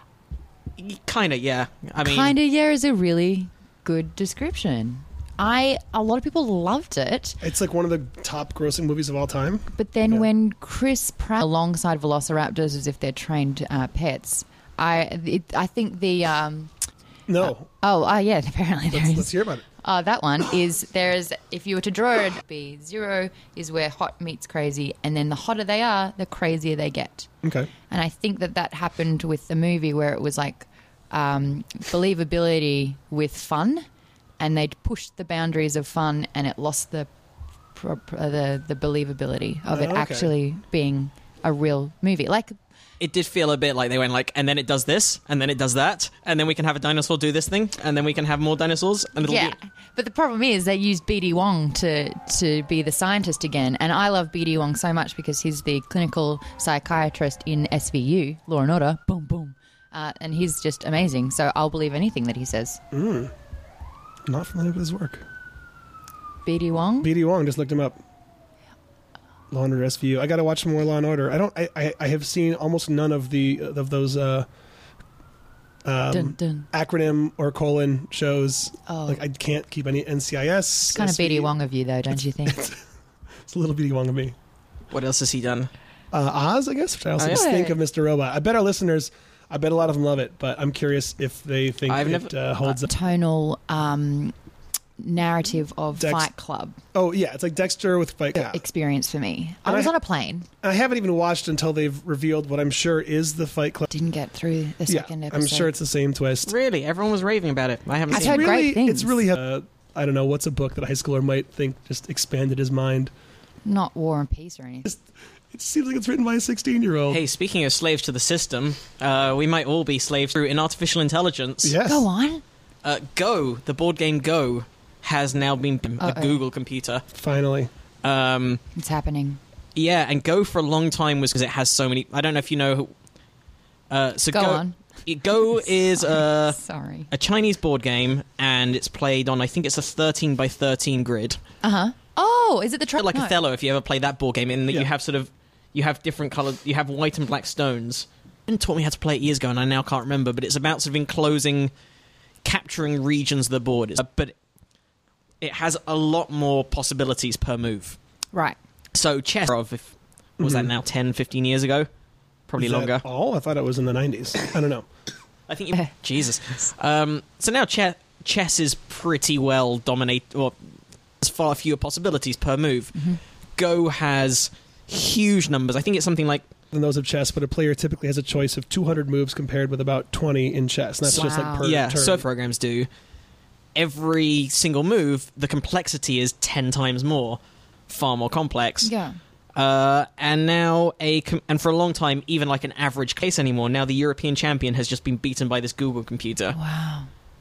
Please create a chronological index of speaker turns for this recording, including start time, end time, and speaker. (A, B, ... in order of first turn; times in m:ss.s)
0:00.8-0:02.4 A
0:02.0-0:07.4 B
0:07.4-0:10.3 C
0:09.8-0:16.7 B
0:17.3-0:17.7 C
0:17.4-0:27.3 B
0:18.9-0:19.6 C
0:27.4-0:27.7 C
0:27.9-0:33.9 B
0:34.4-0:37.1 B
0:37.8-0:42.6 B
0:39.7-0:40.3 C
0:43.0-0:49.6 A
0:49.2-1:02.8 B
1:02.9-1:03.3 C
1:04.3-1:05.3 C
1:06.4-1:07.1 B
1:07.0-1:08.0 C
1:09.5-1:14.5 C
1:15.8-1:21.5 C
1:16.1-1:16.7 B
1:18.9-1:19.2 B
1:20.9-1:22.7 B
1:22.5-1:22.8 C
1:23.5-1:24.4 C
1:24.9-1:25.7 A
1:26.1-1:32.9 C
1:27.2-1:27.5 A
1:27.3-1:27.8 B
1:31.9-1:32.3 A
1:32.6-1:34.3 B
1:35.0-1:36.8 B
1:36.0-1:36.3 C
1:36.9-1:38.6 C
1:38.4-1:40.5 B
1:39.6-1:39.9 C
1:40.6-1:43.9 C
1:43.9-1:45.7 B
1:44.9-1:46.5 C
1:46.5-1:48.5 A
1:48.1-1:53.1 C
1:48.1-1:49.2 B
1:53.6-1:54.9 B
1:54.9-1:57.2 C
1:57.1-2:01.8 A
2:01.6-2:02.1 C
2:01.8-2:02.4 B
2:02.8-2:07.0 A
2:06.0-2:06.4 B
2:07.1-2:07.7 C
2:08.0-2:08.6 A
2:08.7-2:09.4 B
2:09.8-2:12.9 A
2:13.9-2:16.6 A
2:14.3-2:14.8 B
2:15.6-2:17.1 B
2:17.1-2:21.4 A
2:21.6-2:23.4 B
2:23.0-2:31.7 A
2:32.4-2:34.3 A
2:35.4-2:38.0 A
2:38.9-2:41.9 A
2:40.4-2:40.7 C
2:42.5-2:43.0 A
2:42.6-2:44.9 C
2:45.5-2:50.6 A
2:51.2-2:56.4 A
2:56.7-3:02.2 C
3:01.1-3:02.9 A
3:01.1-3:01.7 B
3:03.8-3:08.9 A
3:08.8-3:09.2 B
3:09.6-3:16.6 A
3:16.5-3:17.1 B